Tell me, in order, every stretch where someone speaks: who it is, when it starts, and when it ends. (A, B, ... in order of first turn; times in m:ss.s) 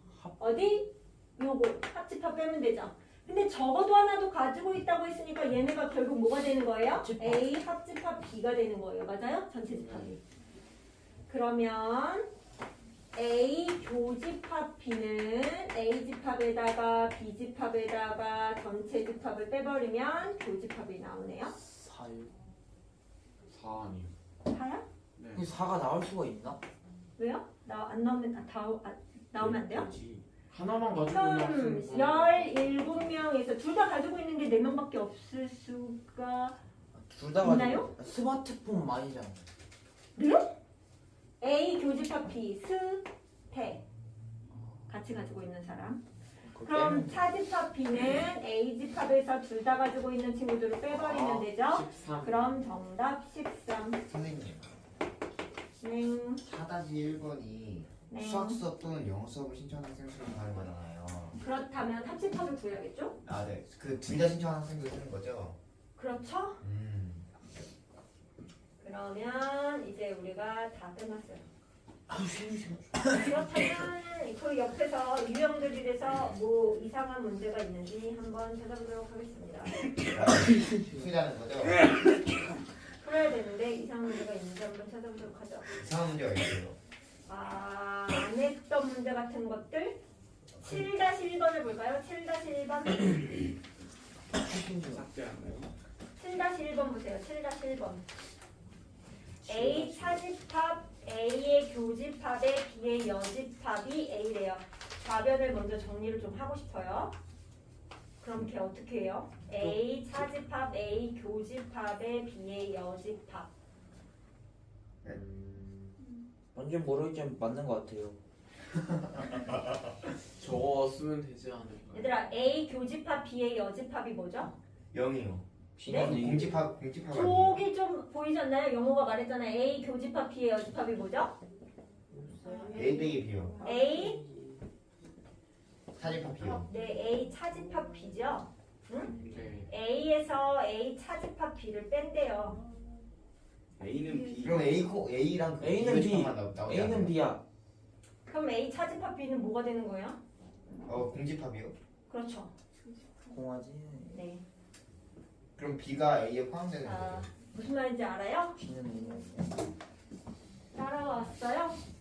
0:00.1-0:00.5 A
0:00.4-0:10.2 B
0:06.9-0:07.4 A
0:09.7-0:10.1 C
0:11.3-0:12.3 B
0:13.1-0:21.5 B
0:21.5-0:22.3 A
0:23.5-0:24.1 C
0:24.4-0:24.8 B
0:25.2-0:25.5 C
0:25.3-0:26.6 A
0:27.2-0:29.9 B
0:29.4-0:30.2 A
0:30.4-0:33.0 C
0:31.0-0:36.6 B
0:36.9-0:39.5 A
0:37.4-0:37.9 B
0:40.2-0:40.5 B
0:41.4-0:43.8 B
0:44.9-0:46.0 B
0:46.4-0:47.3 A
0:46.6-0:54.0 B
0:50.9-0:52.6 C
0:54.0-0:54.6 D
0:55.8-0:56.4 B
0:56.4-1:01.4 D
0:58.1-0:58.6 B
1:01.4-1:03.2 B
1:03.2-1:05.6 D
1:06.0-1:06.6 B
1:06.6-1:07.3 D
1:08.8-1:11.4 B
1:12.1-1:13.5 A
1:13.1-1:19.8 B
1:20.1-1:21.8 D
1:20.6-1:20.9 A
1:23.0-1:25.8 B
1:25.7-1:26.8 D
1:27.3-1:30.0 B
1:30.6-1:33.3 B
1:34.3-1:35.1 A
1:34.9-1:35.7 C
1:36.2-1:38.0 B
1:39.4-1:40.2 A
1:39.4-1:47.1 B
1:48.2-1:53.5 B
1:55.0-1:56.0 C
1:56.5-1:58.2 A
1:58.9-1:59.7 D
2:00.2-2:02.2 C
2:01.9-2:04.5 B
2:04.9-2:07.6 D
2:05.8-2:06.7 A
2:05.8-2:06.1 B
2:07.1-2:11.4 B
2:12.1-2:14.6 A
2:12.7-2:13.6 D
2:13.6-2:14.2 B
2:16.0-2:16.7 D
2:16.6-2:19.1 B
2:19.2-2:19.7 C
2:19.7-2:22.6 B
2:23.8-2:24.6 C
2:24.3-2:27.2 D
2:25.6-2:27.4 A
2:28.2-2:30.2 B
2:30.8-2:31.7 D
2:32.1-2:32.5 B
2:33.2-2:34.2 A
2:34.1-2:34.4 B
2:35.6-2:37.3 D
2:36.8-2:38.6 B
2:38.6-2:39.7 A
2:40.7-2:41.8 B